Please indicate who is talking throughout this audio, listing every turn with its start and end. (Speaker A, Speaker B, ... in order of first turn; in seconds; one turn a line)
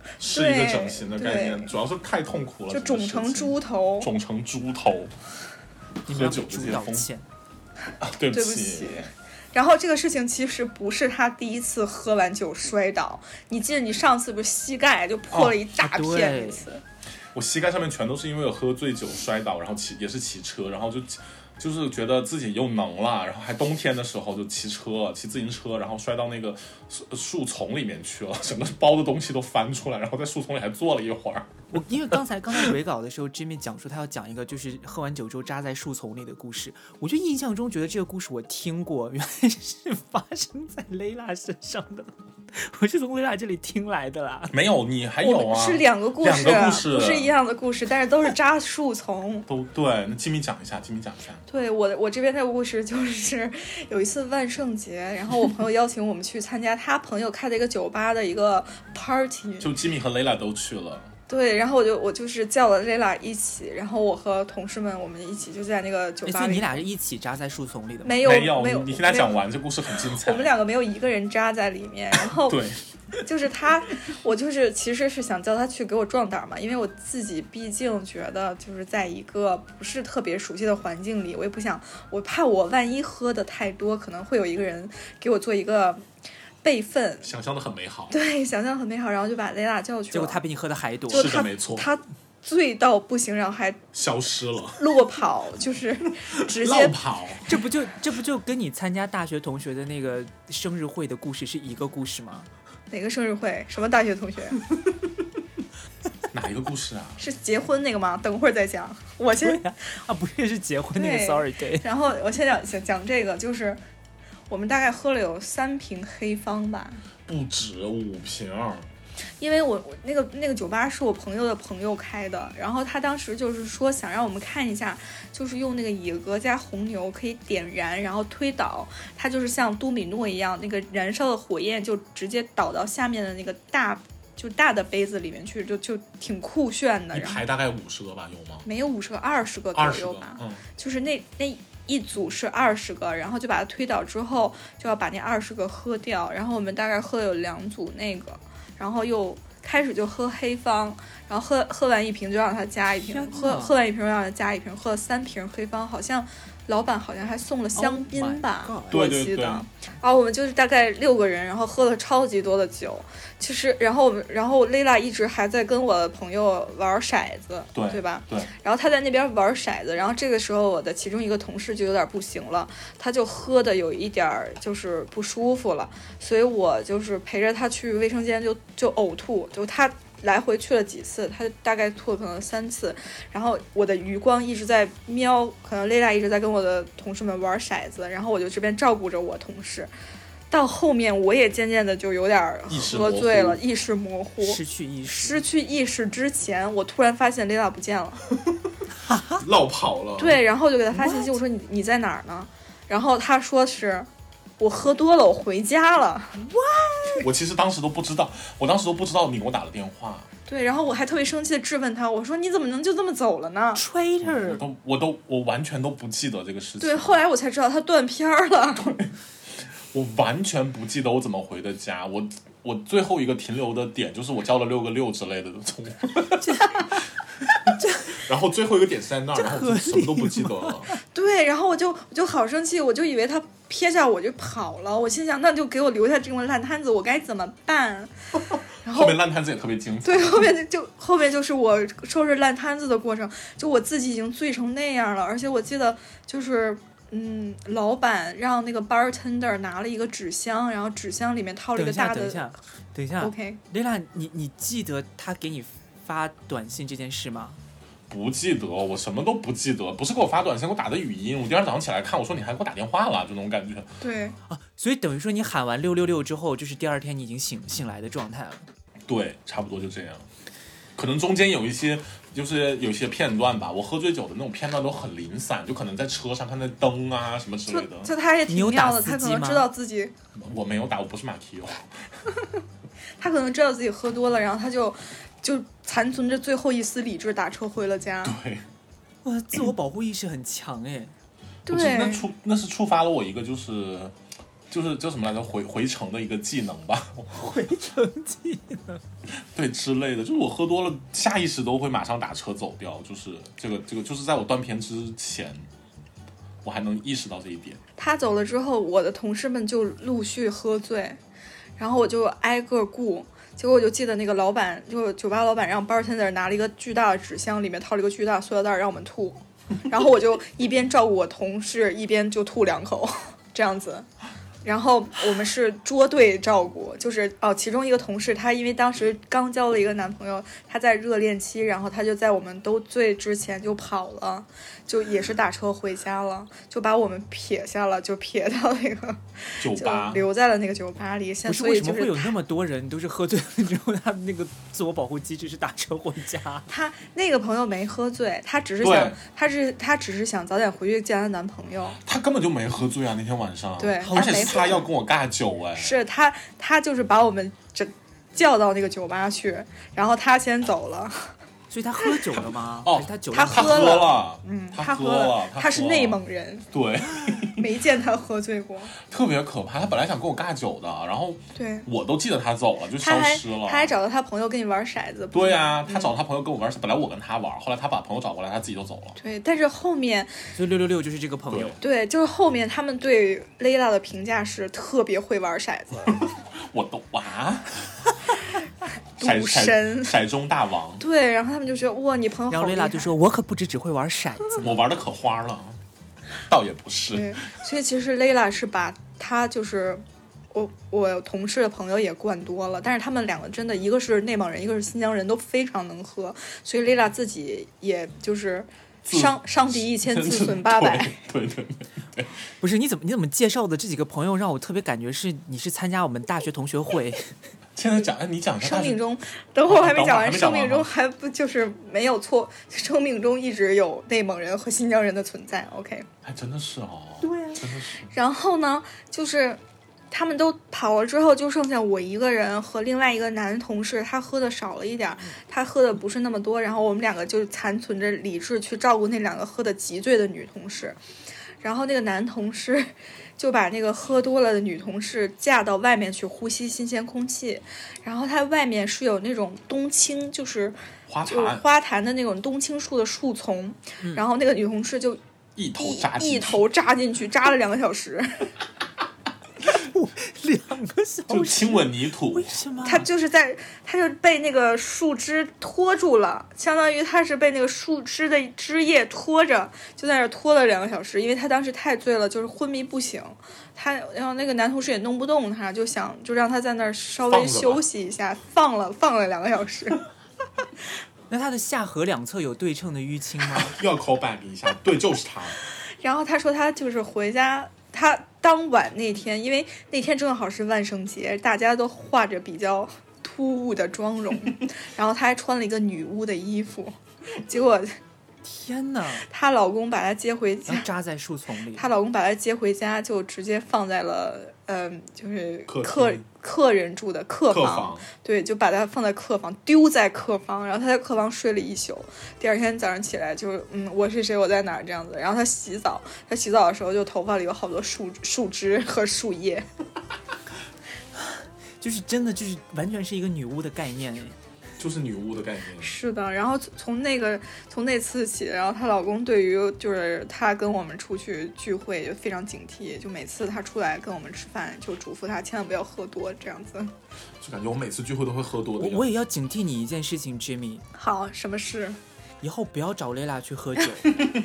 Speaker A: 0.2-1.7
Speaker B: 0.2-5.1
Speaker A: 2.7-4.1
Speaker C: 6.0-7.2
Speaker B: 6.1-7.1
Speaker B: 8.0-9.1
Speaker A: 8.3-16.8
Speaker C: 15.7-16.6
Speaker B: 17.3-31.7
Speaker C: 31.7-44.5
Speaker B: 44.5-47.3
Speaker A: 45.2-49.5
Speaker B: 49.5-51.4
Speaker A: 51.5-59.7
Speaker B: 59.6-61.1
Speaker A: 61.3-66.8
Speaker C: 66.2-68.2
Speaker A: 68.0-69.3
Speaker B: 68.2-70.5
Speaker A: 70.2-72.6
Speaker B: 72.3-72.8
Speaker A: 73.2-86.0
Speaker A: 86.6-87.3
Speaker B: 87.2-88.1
Speaker A: 88.1-90.4
Speaker C: 90.1-91.3
Speaker B: 91.1-91.9
Speaker A: 91.1-93.8
Speaker B: 93.9-94.8
Speaker A: 94.8-97.0
Speaker B: 96.5-97.6
Speaker C: 97.5-102.5
Speaker A: 102.9-104.6
Speaker B: 106.3-107.2
Speaker A: 107.2-109.6
Speaker C: 109.4-111.9
Speaker A: 110.9-113.8
Speaker A: 114.5-117.0
Speaker B: 117.2-118.9
Speaker A: 119.4-137.4
Speaker B: 137.1-138.7
Speaker A: 138.6-189.9
Speaker B: 139.7-140.6
Speaker C: 152.9-153.8
Speaker C: 157.7-159.1
Speaker B: 158.9-159.7
Speaker B: 167.7-168.5
Speaker A: 190.5-198.2
Speaker B: 192.7-193.6
Speaker C: 194.4-195.4
Speaker C: 199.0-199.4
Speaker B: 199.4-200.4
Speaker A: 200.2-204.1
Speaker C: 200.9-201.4
Speaker A: 204.6-206.4
Speaker C: 206.4-207.3
Speaker B: 207.2-210.3
Speaker A: 210.5-213.8
Speaker C: 213.7-214.6
Speaker B: 214.2-217.2
Speaker A: 216.8-218.9
Speaker B: 218.8-219.1
Speaker B: 219.9-227.0
Speaker C: 226.4-226.9
Speaker B: 227.6-230.9
Speaker C: 227.8-228.2
Speaker C: 229.3-230.9
Speaker A: 231.1-238.1
Speaker B: 238.5-240.5
Speaker A: 238.8-239.2
Speaker A: 240.0-252.5
Speaker C: 251.8-257.6
Speaker A: 253.2-253.6
Speaker B: 258.1-263.9
Speaker A: 264.0-264.4
Speaker C: 264.5-268.6
Speaker B: 269.1-270.3
Speaker B: 270.9-278.1
Speaker A: 277.7-280.1
Speaker C: 278.5-279.7
Speaker B: 280.3-282.0
Speaker A: 283.2-288.4
Speaker B: 288.2-288.6
Speaker C: 289.2-291.1
Speaker A: 291.7-292.3
Speaker B: 291.7-294.1
Speaker B: 294.7-297.7
Speaker C: 297.3-299.0
Speaker B: 299.4-305.7
Speaker B: 306.6-307.8
Speaker A: 308.0-311.2
Speaker A: 311.8-324.1
Speaker A: 324.6-342.3
Speaker B: 339.6-340.2
Speaker C: 341.4-346.7
Speaker A: 346.7-352.0
Speaker B: 348.8-349.2
Speaker B: 352.0-356.0
Speaker A: 353.8-354.9
Speaker C: 354.0-354.8
Speaker A: 355.8-361.3
Speaker C: 361.7-364.0
Speaker B: 362.3-366.2
Speaker A: 363.3-366.7
Speaker B: 366.7-367.6
Speaker A: 367.5-368.9
Speaker B: 369.0-373.9
Speaker A: 371.6-371.9
Speaker A: 373.0-376.1
Speaker B: 375.3-379.2
Speaker A: 379.2-380.4
Speaker C: 380.6-381.8
Speaker B: 381.5-381.8
Speaker A: 381.8-386.3
Speaker B: 386.1-387.9
Speaker A: 389.2-390.1
Speaker B: 389.2-391.0
Speaker A: 391.0-393.1
Speaker C: 392.5-394.9
Speaker B: 394.6-395.8
Speaker B: 396.5-397.4
Speaker A: 397.1-411.2
Speaker B: 409.0-412.3
Speaker C: 412.6-417.3
Speaker B: 417.8-419.0
Speaker A: 418.6-426.1
Speaker B: 419.7-420.9
Speaker B: 426.2-428.1
Speaker C: 427.2-427.7
Speaker A: 428.1-429.6
Speaker A: 430.1-441.0
Speaker A: 441.6-455.2
Speaker B: 451.1-451.6
Speaker B: 455.6-456.6
Speaker A: 455.8-458.5
Speaker C: 459.6-463.1
Speaker B: 461.3-462.6
Speaker A: 462.8-480.0
Speaker B: 477.2-477.8
Speaker C: 481.3-483.8
Speaker B: 483.4-485.6
Speaker A: 486.0-497.9
Speaker C: 498.4-499.2
Speaker A: 499.2-500.9
Speaker C: 500.7-501.9
Speaker A: 501.7-519.6
Speaker B: 505.7-506.2
Speaker B: 507.5-508.1
Speaker C: 521.2-524.4
Speaker B: 524.8-525.9
Speaker A: 525.8-536.9
Speaker B: 537.4-539.1
Speaker C: 538.8-540.8
Speaker A: 540.9-542.0
Speaker C: 542.4-544.1